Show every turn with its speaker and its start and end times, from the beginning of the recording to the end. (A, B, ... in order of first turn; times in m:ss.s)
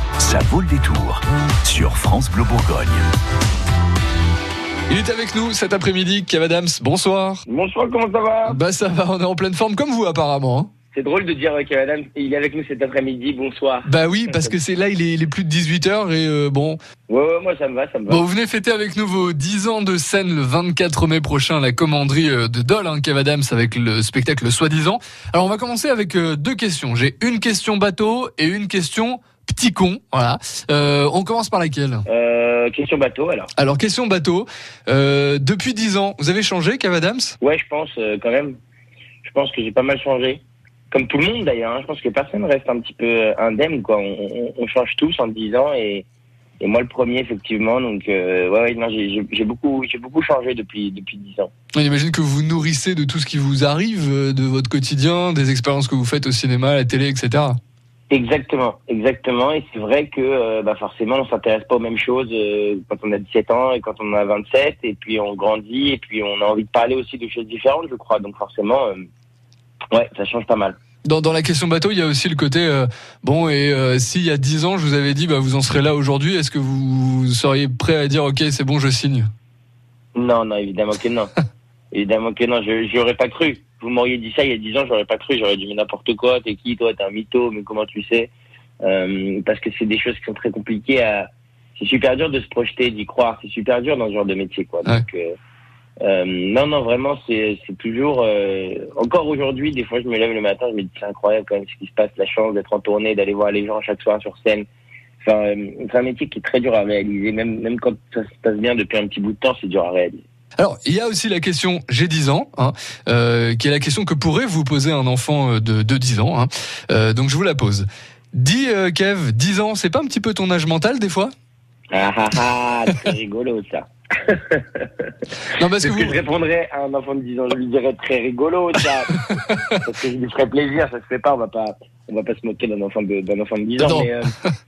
0:00.2-0:03.0 A
0:04.9-0:07.4 B
0:07.5-0:08.6 C
0:08.5-0:10.7 B
0:10.9-0:14.5 C
0:13.9-0:16.8 B
0:17.1-0:18.2 C
0:18.1-0:32.0 B
0:32.1-0:33.5 C
0:33.6-0:37.4 B
0:37.4-0:38.6 C
0:39.2-0:46.0 C
0:46.6-0:51.5 C
0:51.8-0:57.6 B
0:58.1-1:09.0 C
1:09.9-1:10.8 C
1:11.0-1:19.3 B
1:20.2-1:21.3 C
1:21.9-1:35.4 C
1:36.0-1:44.7 C
1:45.2-1:50.2 C
1:50.6-2:01.3 B
2:01.9-2:05.1 C
2:05.6-2:06.2 B
2:05.8-2:09.1 C
2:09.2-2:09.6 B
2:09.8-2:14.3 C
2:13.8-2:14.5 B